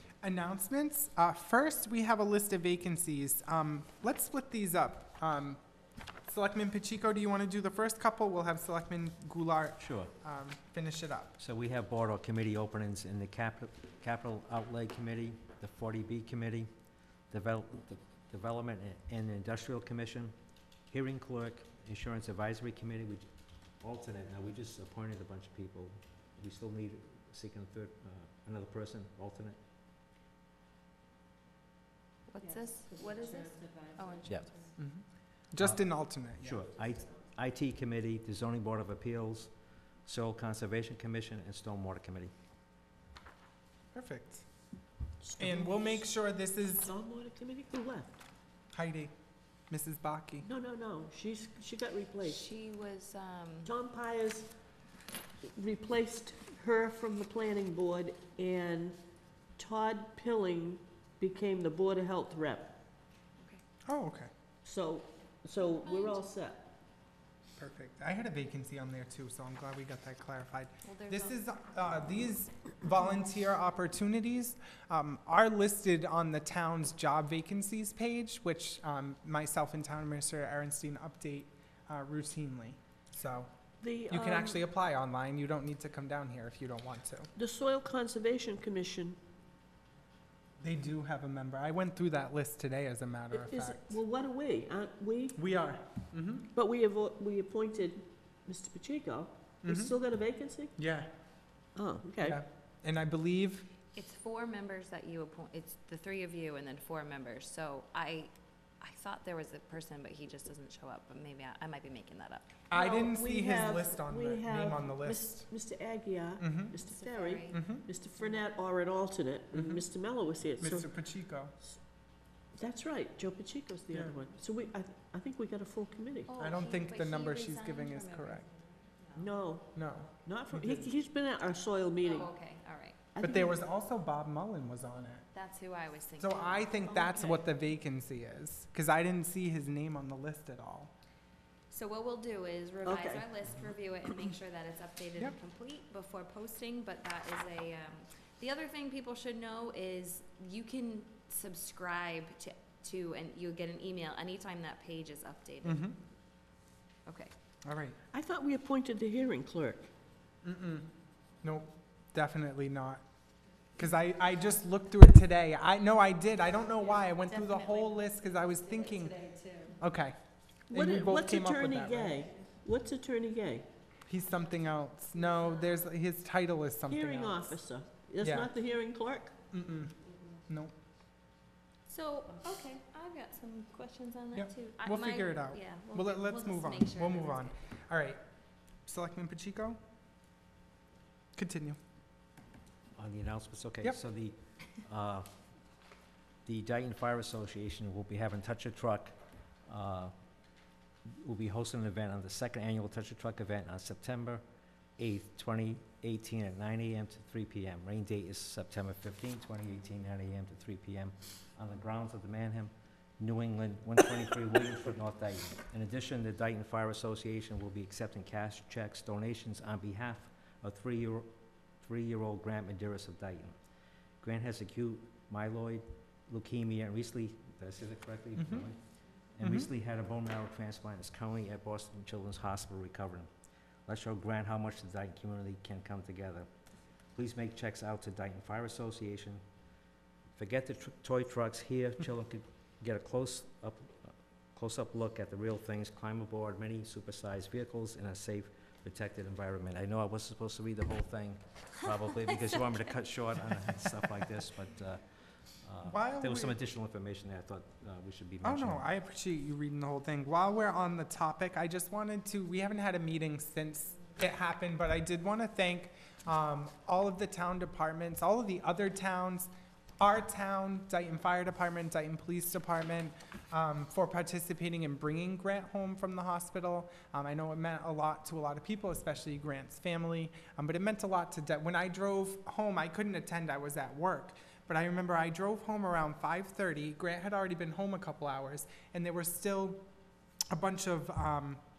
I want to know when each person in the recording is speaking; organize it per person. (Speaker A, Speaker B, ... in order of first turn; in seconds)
Speaker A: 0.2-5.6, 6.2-11.4, 34.8-36.6, 43.9-44.4, 45.4-46.9, 48.7-49.1, 49.7-50.5, 63.9-64.3, 67.6-83.5, 84.1-87.3, 90.6-94.0, 95.3-96.5, 99.6-100.0, 100.8-101.1, 102.2-103.7, 112.7-115.5, 116.4-116.8, 117.5-117.8, 119.5-119.8, 120.6-121.5, 123.9-124.2, 126.4-128.4, 129.7-130.9, 133.2-135.2, 136.2-140.9, 155.6-156.0, 157.6-158.0, 160.4-160.9, 161.4-163.0, 163.8-169.2, 169.8-170.2, 170.7-172.2, 174.1-177.6, 178.2-178.5, 179.5-179.9, 180.5-180.7, 184.3-188.2, 188.8-189.8, 191.3-191.8, 228.4-228.7, 229.4-229.7, 255.8-256.6, 258.4-289.8, 290.5-291.6
Speaker B: 9.8-10.1, 11.4-16.7, 17.3-20.3, 20.9-23.3, 23.8-29.6, 35.6-35.9, 36.4-42.3, 192.9-195.3, 196.4-200.1, 201.0-204.4, 205.0-223.6, 224.2-228.8, 229.3-233.3, 233.9-236.5, 237.1-239.4, 240.4-258.8
Speaker C: 32.3-34.7, 52.2-53.7, 65.6-66.2, 70.8-71.4, 103.9-112.6, 116.8-117.6, 126.3-129.3, 132.0-133.0, 135.3-137.4, 141.7-155.8, 157.1-157.3, 167.5-167.8, 181.9-187.6
Speaker D: 45.2-46.0, 46.8-48.2, 50.4-52.4, 53.6-54.5, 55.4-59.0, 59.6-62.8, 64.6-66.7, 83.8-84.6, 87.3-89.2, 93.3-95.4, 96.5-100.7, 101.8-102.4, 112.7-120.9, 122.5-126.3, 129.1-132.3, 133.1-133.6, 142.8-143.3, 158.1-159.9, 170.7-173.7, 176.9-179.3